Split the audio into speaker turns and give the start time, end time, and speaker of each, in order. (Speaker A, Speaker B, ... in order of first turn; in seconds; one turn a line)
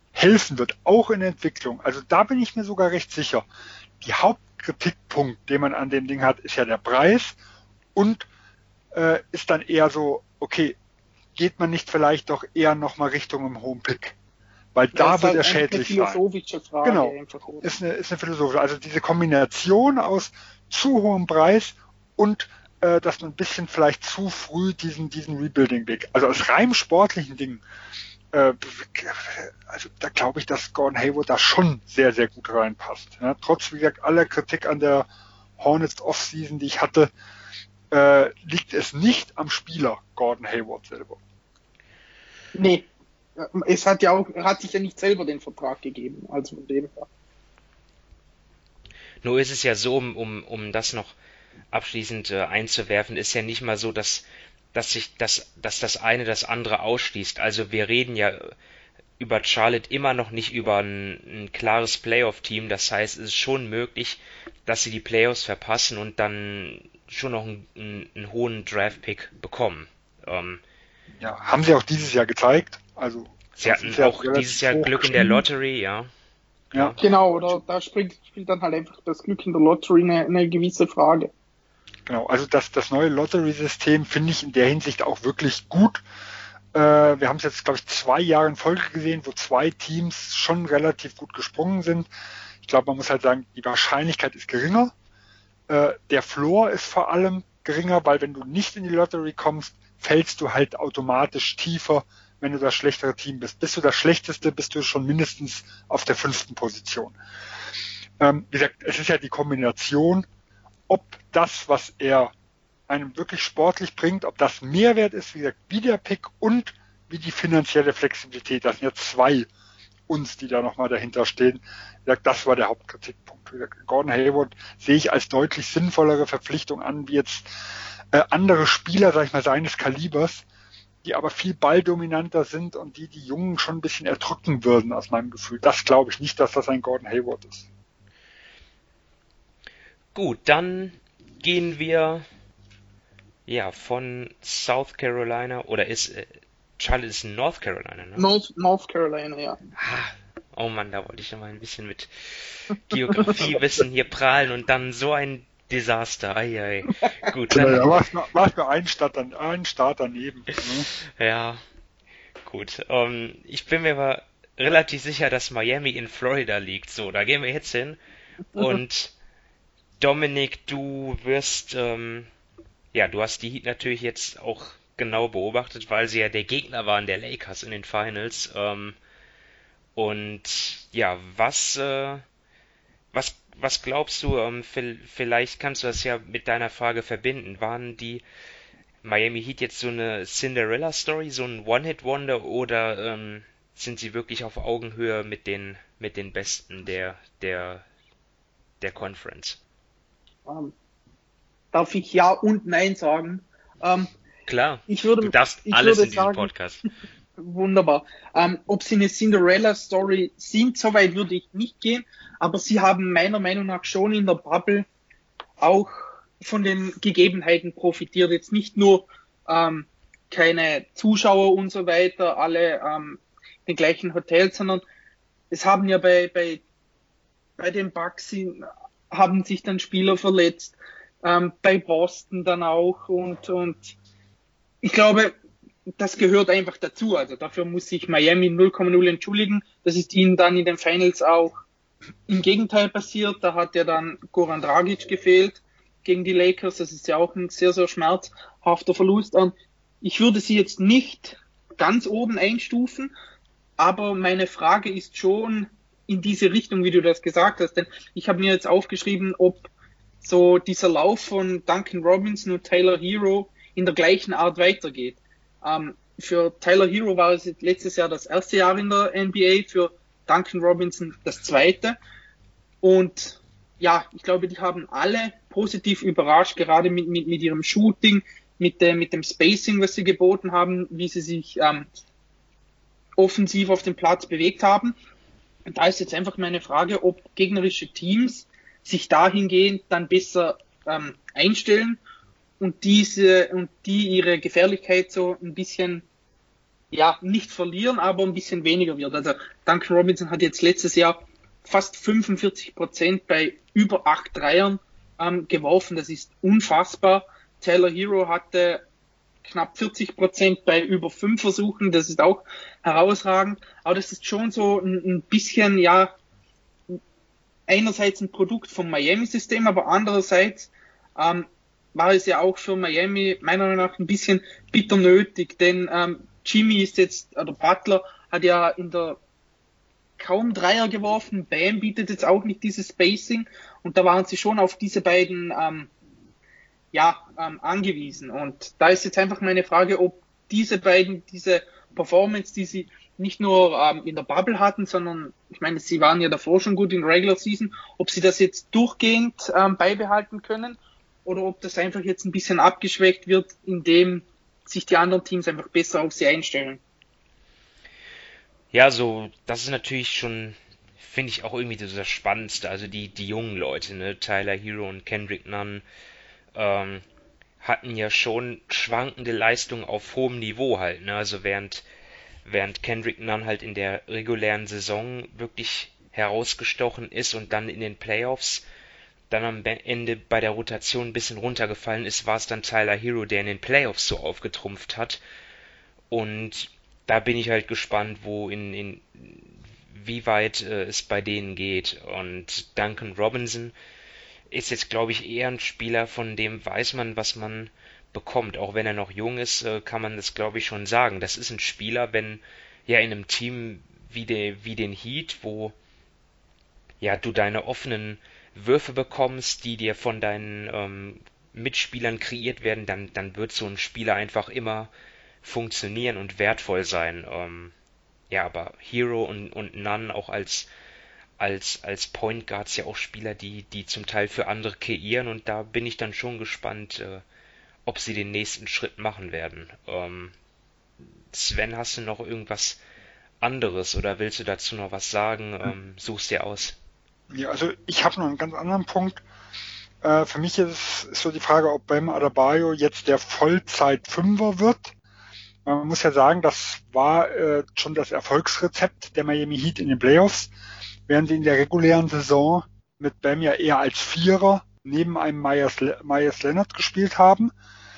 Speaker A: 0.1-3.5
Speaker A: 4.0-7.3
Speaker A: 7.9-8.3
Speaker A: 8.9-10.8
Speaker A: 11.3-14.2
Speaker A: 14.7-16.2
Speaker B: 14.9-17.7
Speaker A: 16.8-27.6
Speaker A: 28.3-35.1
Speaker A: 35.6-37.1
Speaker A: 37.9-41.2
Speaker B: 42.5-47.0
Speaker C: 49.2-51.1
Speaker C: 51.7-58.5
Speaker C: 59.2-70.6
Speaker A: 71.2-75.4
Speaker C: 73.6-76.1
Speaker C: 76.7-77.0
Speaker B: 77.0-81.3
Speaker A: 82.0-86.0
Speaker A: 86.7-92.1
Speaker A: 92.6-94.9
Speaker A: 95.7-107.1
Speaker A: 108.2-110.2
Speaker A: 110.9-112.3
Speaker A: 112.9-119.5
Speaker A: 120.1-127.5
Speaker A: 128.1-130.4
Speaker A: 131.0-137.7
Speaker C: 140.1-142.2
Speaker C: 143.4-148.2
Speaker B: 148.2-149.6
Speaker C: 149.8-158.0
Speaker A: 157.5-160.9
Speaker C: 161.2-161.6
Speaker C: 162.4-168.0
Speaker C: 168.5-169.1
Speaker C: 170.0-172.3
Speaker C: 172.9-179.0
Speaker C: 179.9-182.2
Speaker C: 183.1-188.2
Speaker C: 189.0-197.8
Speaker C: 198.8-199.6
Speaker B: 200.4-200.7
Speaker B: 201.7-204.1
Speaker C: 204.5-206.8
Speaker B: 204.9-206.5
Speaker B: 207.4-214.8
Speaker B: 215.6-224.8
Speaker B: 225.5-226.6
Speaker B: 227.6-233.9
Speaker B: 234.8-235.3
Speaker B: 236.0-241.5
Speaker B: 242.3-253.1
Speaker B: 253.8-259.7
Speaker B: 260.2-272.0
Speaker B: 272.8-281.9
Speaker B: 283.2-284.9
Speaker B: 285.7-292.0
Speaker B: 292.6-296.0
Speaker B: 296.9-308.8
Speaker B: 309.4-316.1
Speaker B: 317.7-329.2
Speaker B: 330.2-335.9
Speaker B: 336.9-356.8
Speaker C: 358.7-365.8
Speaker C: 366.5-367.0
Speaker C: 367.6-371.8
Speaker C: 372.4-378.6
Speaker C: 379.3-385.2
Speaker C: 386.1-393.7
Speaker C: 394.5-405.7
Speaker C: 407.0-414.9
Speaker C: 415.4-417.7
Speaker C: 418.3-420.7
Speaker C: 421.4-427.2
Speaker C: 427.9-430.3
Speaker C: 431.3-432.8
Speaker C: 433.4-436.8
Speaker A: 437.3-439.2
Speaker A: 440.0-444.9
Speaker A: 445.6-450.5
Speaker A: 451.1-457.5